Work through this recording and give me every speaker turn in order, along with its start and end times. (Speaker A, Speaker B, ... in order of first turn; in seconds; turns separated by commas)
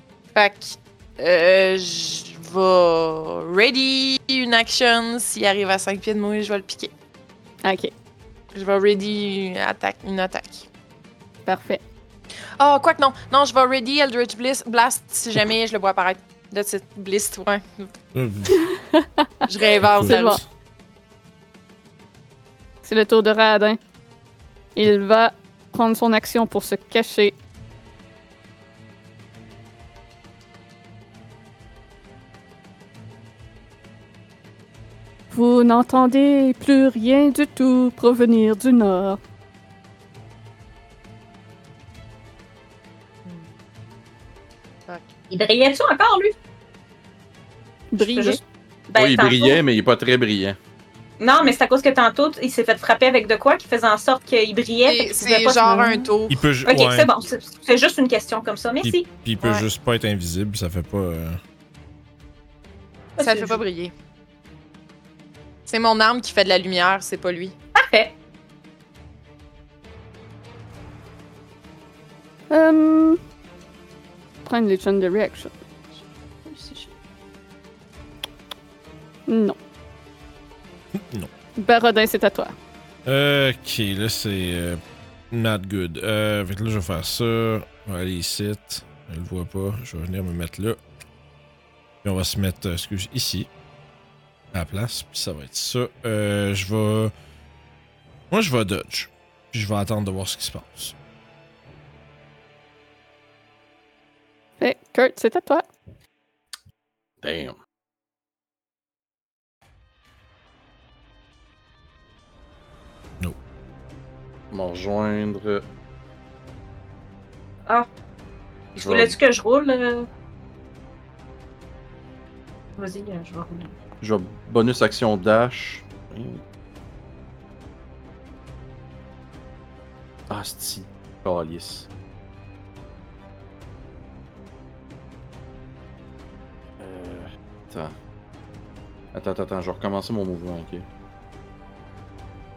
Speaker A: 0.3-6.9, Speaker B: 7.6-7.9, Speaker A: 8.5-10.7, Speaker B: 11.4-11.8, Speaker A: 12.6-17.9, Speaker C: 18.1-18.6, Speaker B: 18.5-19.4, Speaker A: 19.4-20.4, Speaker C: 19.8-20.4, Speaker B: 20.0-20.4, Speaker B: 22.8-23.8, Speaker B: 24.8-27.4, Speaker B: 35.3-39.2, Speaker A: 43.2-43.5, Speaker D: 45.3-46.3, Speaker B: 47.9-48.4, Speaker D: 48.0-49.6, Speaker E: 49.0-50.6, Speaker D: 51.2-55.7, Speaker A: 54.9-56.4, Speaker B: 55.5-56.0, Speaker C: 56.3-57.1, Speaker D: 56.6-59.1, Speaker C: 58.8-61.4, Speaker A: 59.4-59.6, Speaker D: 63.2-63.6, Speaker A: 63.2-63.9, Speaker A: 65.7-67.5, Speaker D: 67.7-68.1, Speaker B: 72.5-73.2, Speaker B: 74.4-75.5, Speaker D: 75.9-76.9, Speaker B: 79.3-79.6, Speaker C: 81.0-81.3, Speaker B: 81.6-82.5, Speaker C: 83.0-84.8, Speaker C: 85.3-90.8, Speaker C: 92.0-93.5, Speaker C: 94.5-97.1, Speaker C: 98.3-100.9, Speaker B: 104.6-105.7, Speaker E: 107.2-107.6, Speaker E: 114.5-115.7, Speaker D: 118.7-120.1, Speaker E: 118.8-119.2, Speaker D: 122.8-123.7, Speaker E: 124.0-126.4, Speaker E: 130.3-131.9, Speaker E: 136.8-137.9, Speaker E: 139.1-140.9